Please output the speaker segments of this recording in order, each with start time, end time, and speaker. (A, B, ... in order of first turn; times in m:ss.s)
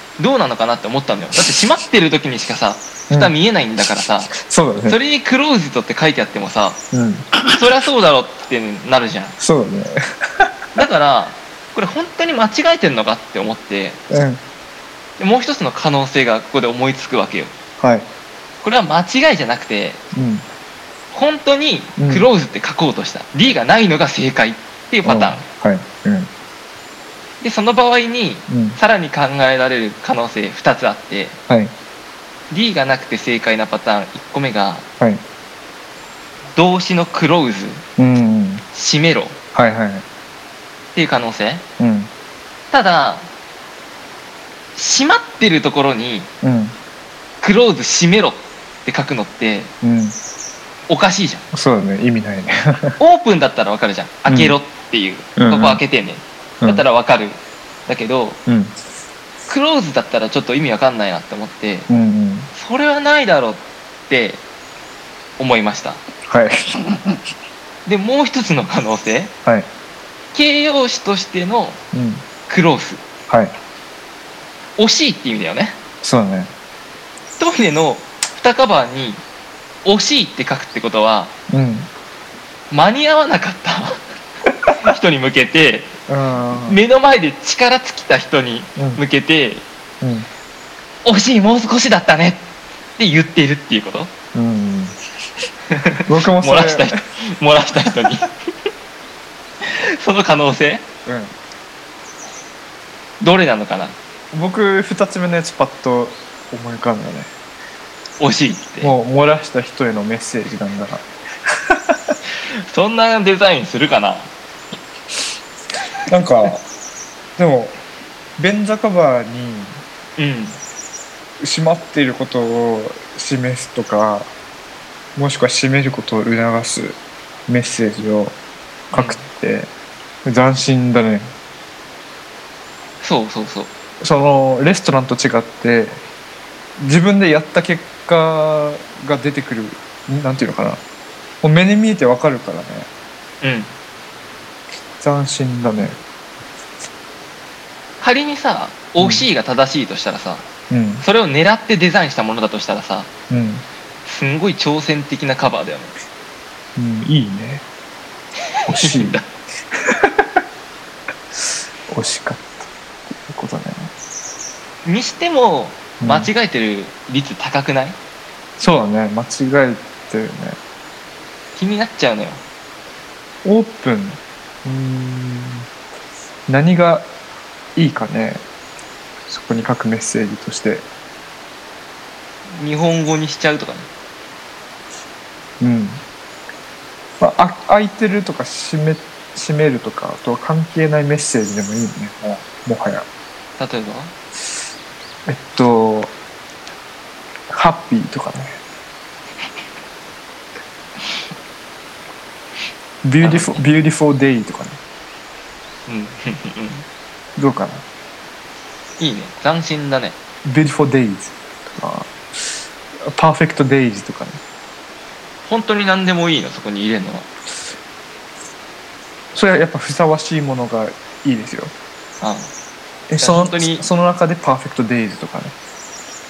0:00.2-0:06.8 A
0:04.3-0:05.0 B
0:06.9-0:07.6 B
0:07.6-0:09.3 A
0:09.4-0:10.5 B
0:10.8-0:14.0 A
0:14.1-0:14.4 B
0:15.2-0:17.5 A
0:17.8-0:18.1 B
0:18.6-0:20.0 A
0:20.1-0:20.4 B
0:21.1-0:25.4 A
0:22.0-0:22.3 B
0:25.0-0:26.3 B
0:27.4-0:31.4 A
0:28.5-0:28.8 B
0:32.5-0:34.8 A
0:36.5-0:37.8 A
0:38.0-0:38.6 B
0:38.7-0:39.4 A
0:39.5-0:40.0 B
0:40.9-0:41.6 A
0:41.8-0:42.1 B
0:42.7-0:43.3 A
0:44.7-0:46.3 A
0:46.4-0:46.8 B
0:47.4-0:49.7 A
0:49.8-0:50.2 B
0:50.9-0:51.4 A
0:51.5-0:53.0 B
0:53.0-0:58.4 A
0:54.3-0:54.6 B
0:55.4-0:55.8 B
0:58.4-0:58.7 B
0:59.5-1:01.9 A
1:01.9-1:02.5 B
1:02.5-1:04.4 A
1:05.4-1:06.0 A
1:06.2-1:07.2 B
1:07.8-1:09.3 A
1:10.3-1:11.8 A
1:11.9-1:12.2 B
1:12.5-1:13.0 A
1:13.3-1:13.5 B
1:14.8-1:15.8 A
1:16.0-1:16.5 B
1:17.4-1:19.2 A
1:19.8-1:21.3 A
1:21.5-1:21.9 B
1:22.7-1:24.0 A
1:24.8-1:26.0 A
1:26.1-1:26.8 B
1:26.6-1:29.6 A
1:28.8-1:29.0 B
1:30.0-1:30.3 B
1:31.0-1:34.1 A
1:34.3-1:34.9 B
1:36.1-1:36.9 B
1:36.4-1:38.2 A
1:40.0-1:40.8 A
1:41.0-1:41.3 B
1:43.2-1:44.0 A
1:44.3-1:47.3 B
1:48.2-1:48.9 A
1:48.8-1:51.0 B
1:51.7-1:52.1 B
1:52.7-1:54.3 A
1:56.1-1:56.6 B
1:57.4-1:57.8 B
1:58.4-1:59.8 B
2:00.2-2:00.6 A
2:01.4-2:04.3 B
2:05.2-2:08.4 B
2:08.9-2:09.7 B
2:08.9-2:09.2 A
2:10.2-2:11.3 B
2:13.0-2:13.7 A
2:14.0-2:16.0 B
2:16.8-2:20.8 B
2:21.4-2:22.9 B
2:23.4-2:23.7 A
2:25.0-2:26.0 B
2:28.0-2:30.4 A
2:29.0-2:29.3 B
2:30.7-2:31.0 B
2:31.0-2:33.1 A
2:33.3-2:33.6 B
2:34.0-2:35.9 A
2:36.8-2:37.6 B
2:38.7-2:39.2 B
2:38.7-2:39.3 A
2:39.9-2:40.2 B
2:41.9-2:43.9 B
2:44.8-2:48.0 A
2:46.0-2:46.3 B
2:48.6-2:50.6 B
2:51.6-2:52.4 A
2:53.4-2:55.7 B
2:56.5-2:57.1 B
2:57.8-2:58.4 B
2:59.3-3:00.8 B
3:02.5-3:03.9 A
3:05.6-3:06.0 B
3:07.2-3:13.0 B
3:13.6-3:14.1 A
3:15.3-3:16.1 B
3:17.5-3:18.6 B
3:23.0-3:24.8 B
3:23.2-3:23.6 A
3:25.9-3:26.8 A
3:27.4-3:27.8 B
3:29.0-3:30.2 A
3:30.4-3:34.4 B
3:35.4-3:37.3 A
3:39.3-3:41.7 B
3:42.2-3:42.5 A
3:43.1-3:45.6 B
3:43.2-3:43.8 A